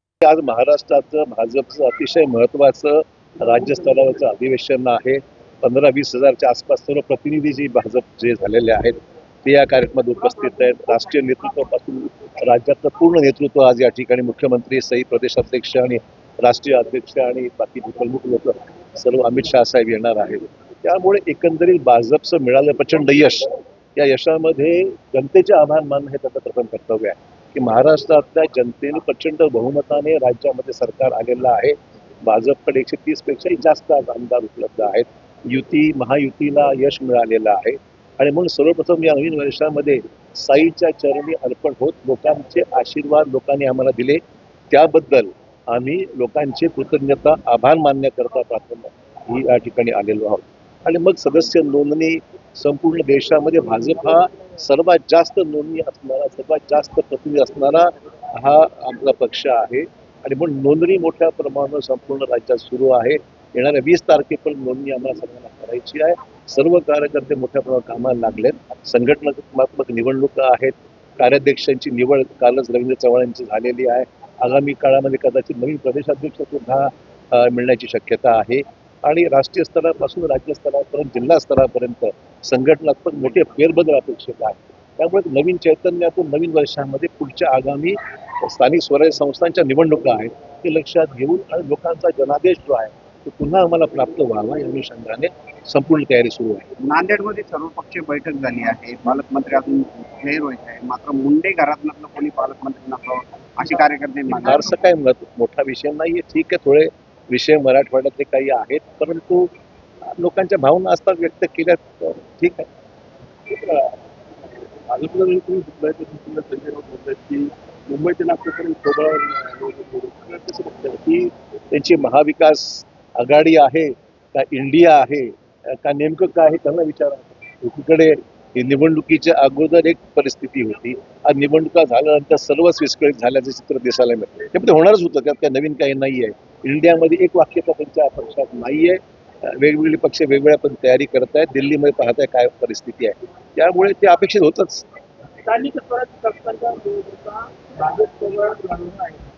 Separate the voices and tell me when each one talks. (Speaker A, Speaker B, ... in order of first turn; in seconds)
Speaker A: 0.2-44.2, 44.7-96.7, 104.3-109.5, 110.0-112.7, 121.7-144.8
Speaker B: 96.9-104.8
Speaker C: 114.9-121.2, 145.5-149.1